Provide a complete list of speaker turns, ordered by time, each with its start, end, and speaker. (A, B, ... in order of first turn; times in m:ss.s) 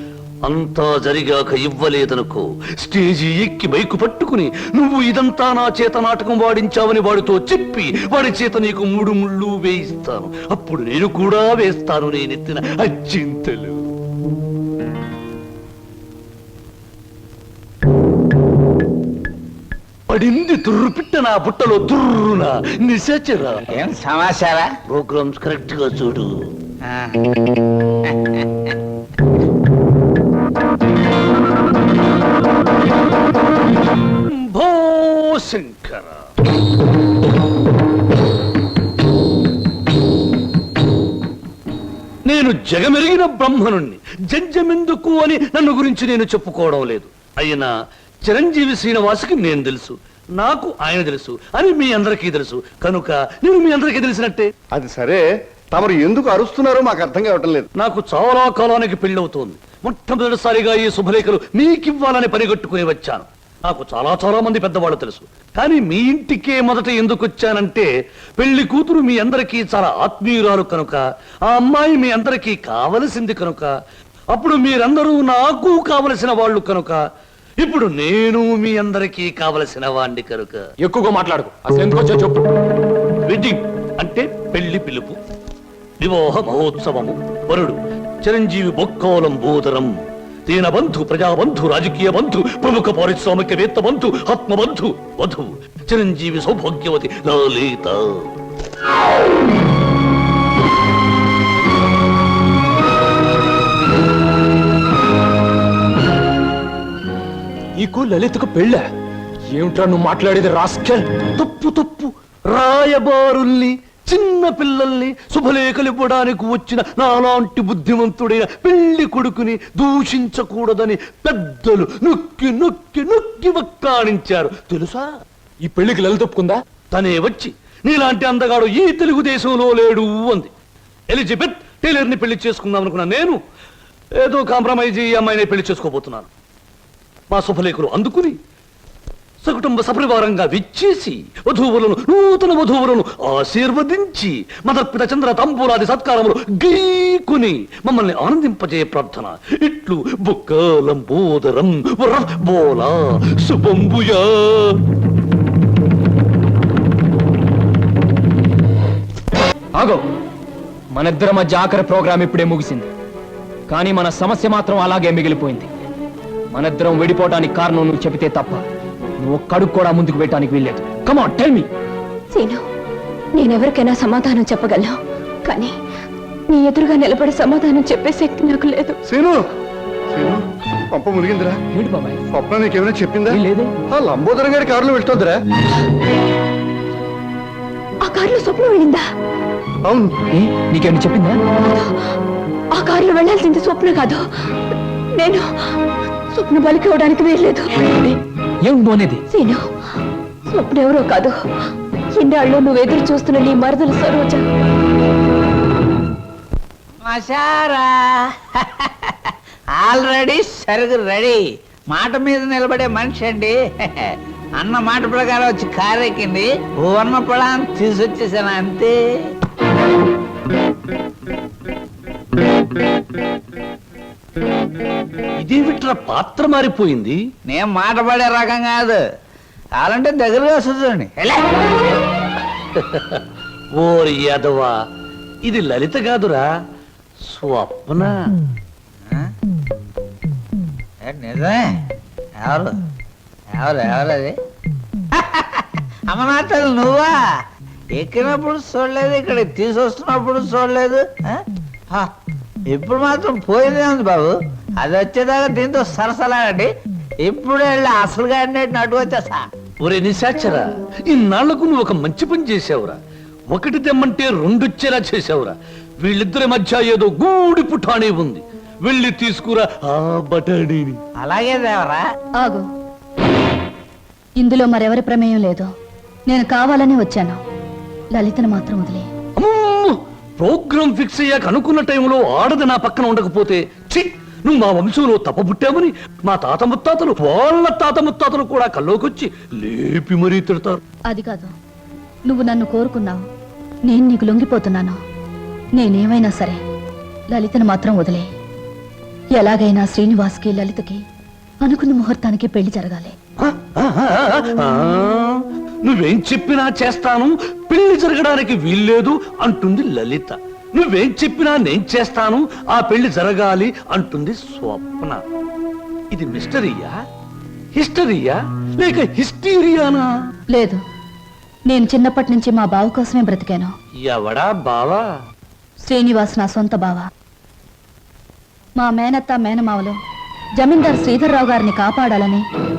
0:00.4-0:13.8 A
0:20.1-0:23.6 A
0:23.7-0:24.7 B
0:24.9-0:26.3 A
0:26.9-0:27.4 B
0:28.1-0:28.7 B
0:34.3-0:36.2 A
0:42.3-0:47.7 A
0:48.2-0:54.5 A
0:54.7-0:57.7 C
0:57.8-1:13.7 A
1:14.3-1:17.0 A
1:17.6-1:20.7 A
1:20.8-1:22.5 D
1:23.3-1:25.2 A
1:26.0-1:38.3 A
1:47.8-1:48.8 D
1:49.5-1:51.1 D
1:51.4-2:05.1 A
2:05.6-2:06.6 D
2:06.9-2:10.5 A
2:11.1-2:13.4 A
2:14.2-2:16.3 A
2:17.3-2:18.4 A
2:19.4-2:34.8 A
2:40.9-2:42.9 D
2:43.7-2:45.7 D
2:46.5-2:48.6 D
2:49.2-2:51.7 D
2:52.3-2:52.6 E
2:53.3-2:55.8 E
2:56.5-2:59.0 E
2:59.1-2:59.4 C
3:00.1-3:01.6 C
3:01.7-3:02.2 D
3:02.3-3:05.4 C
3:03.3-3:03.7 D
3:08.0-3:09.0 E
3:09.9-3:10.1 C
3:10.3-3:11.4 D
3:11.6-3:12.1 E
3:12.7-3:14.3 E
3:15.1-3:15.5 E
3:16.3-3:17.9 E
3:18.0-3:19.2 D
3:19.3-3:19.7 E
3:20.5-3:21.4 E
3:22.1-3:24.4 E
3:27.0-3:39.0 B
3:45.4-3:47.2 A
3:47.5-3:49.0 B
3:49.8-3:51.5 B
3:52.8-3:53.2 A
3:53.8-3:54.7 A
3:55.4-3:56.4 A
3:57.3-3:58.2 A
4:01.0-4:01.8 B
4:02.4-4:02.8 B
4:03.6-4:04.4 B
4:05.2-4:07.2 B
4:07.9-4:12.1 B
4:12.7-4:16.7 B
4:17.2-4:19.5 B
4:19.8-4:23.0 A
4:23.5-4:31.0 A
4:31.2-4:32.0 B
4:32.4-4:32.7 F
4:34.4-4:35.7 F
4:36.3-4:37.4 F
4:38.1-4:39.1 F
4:39.4-4:50.8 A
4:51.1-4:51.5 F
4:52.3-4:53.2 F
4:53.9-4:55.0 F
4:55.8-4:56.6 F
4:57.3-4:58.3 F
4:59.4-5:01.0 F
5:01.6-5:03.2 F
5:03.4-5:15.2 A
5:16.1-5:16.9 A
5:17.8-5:20.1 A
5:20.5-5:20.8 F
5:21.7-5:23.7 F
5:24.0-5:25.0 A
5:25.8-5:27.1 F
5:28.8-5:30.0 F
5:30.6-5:32.4 F